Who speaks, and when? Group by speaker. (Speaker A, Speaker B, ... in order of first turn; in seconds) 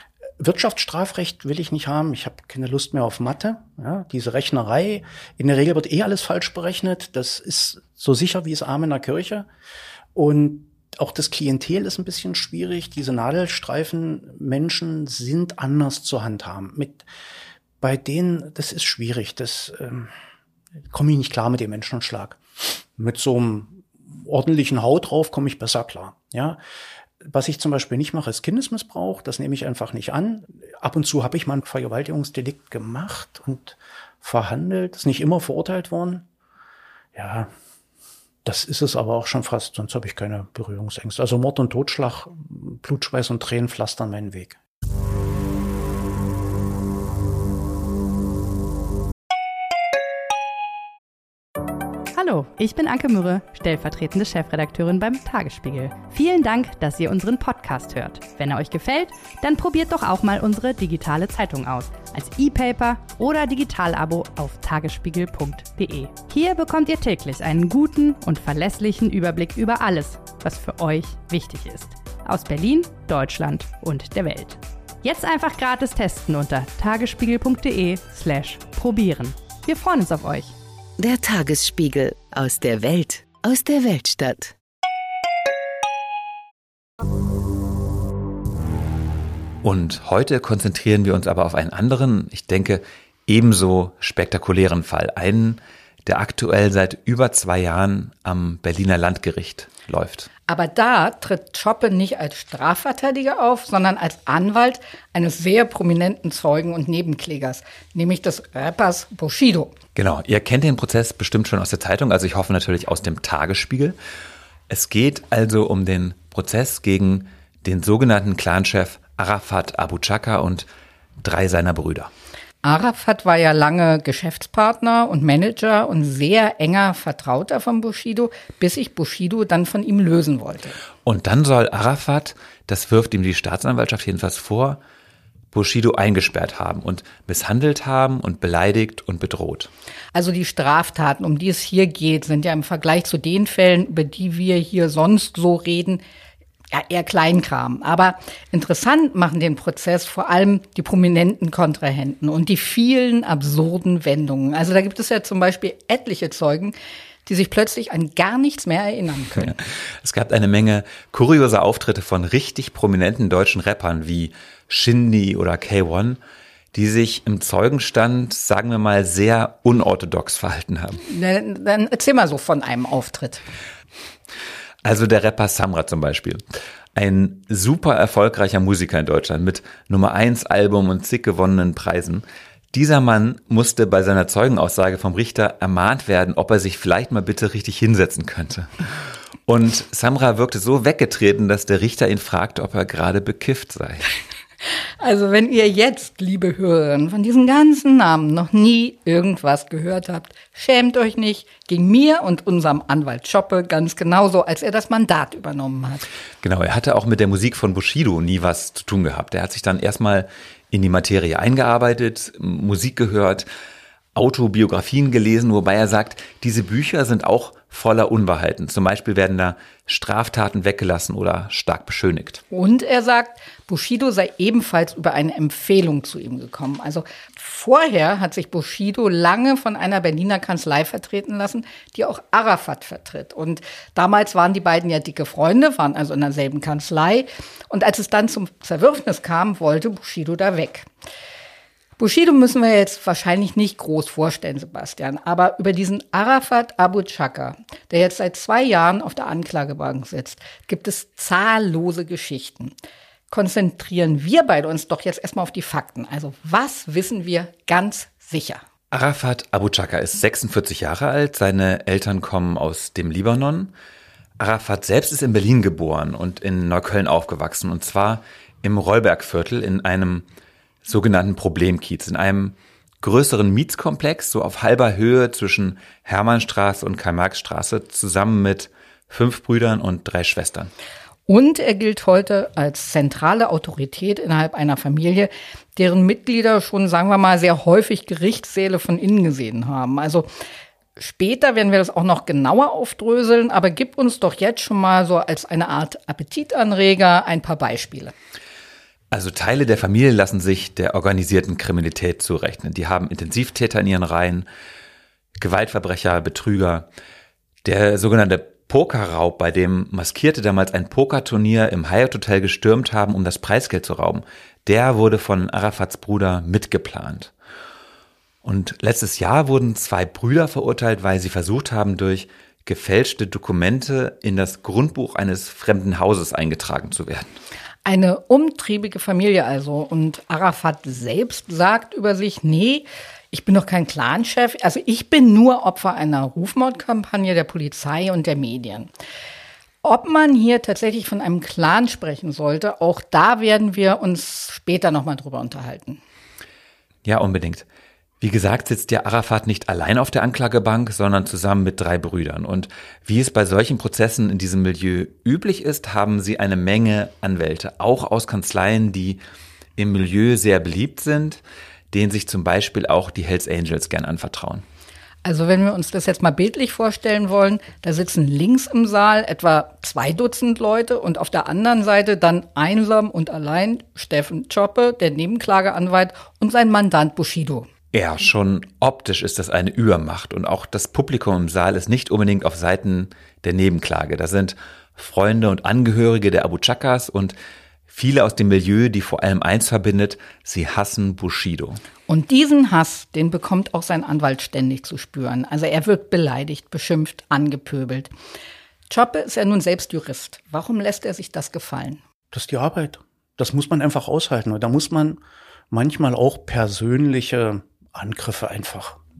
Speaker A: 0.4-9.5, 10.2-17.1, 17.8-20.1, 20.9-26.6, 27.2-36.2, 37.1-37.5, 38.4-44.6, 402.3-409.0
Speaker B: 52.1-80.5
Speaker C: 81.0-84.5
Speaker D: 89.6-100.3, 110.0-114.0, 114.7-120.7, 121.2-122.1, 131.1-134.8, 135.5-139.7, 159.5-166.2, 166.7-171.0, 174.8-176.4, 176.9-188.8, 189.5-194.1, 206.4-213.5, 214.1-222.4, 258.9-263.7, 264.4-270.2, 270.9-280.7, 299.1-304.5, 305.4-306.9, 307.6-317.3, 318.4-327.3, 347.0-347.6, 348.2-359.2, 359.8-361.4, 361.9-364.6, 377.9-387.4, 387.9-391.8
Speaker E: 100.5-109.7, 122.6-130.8, 140.1-146.0, 146.7-156.8, 157.2-159.6, 171.0-173.4, 195.0-206.1, 222.5-240.9, 242.0-252.8, 253.3-258.6, 281.3-290.3, 291.0-298.1, 327.9-338.9, 339.8-346.0, 365.2-377.7, 392.1-398.1, 398.9-402.0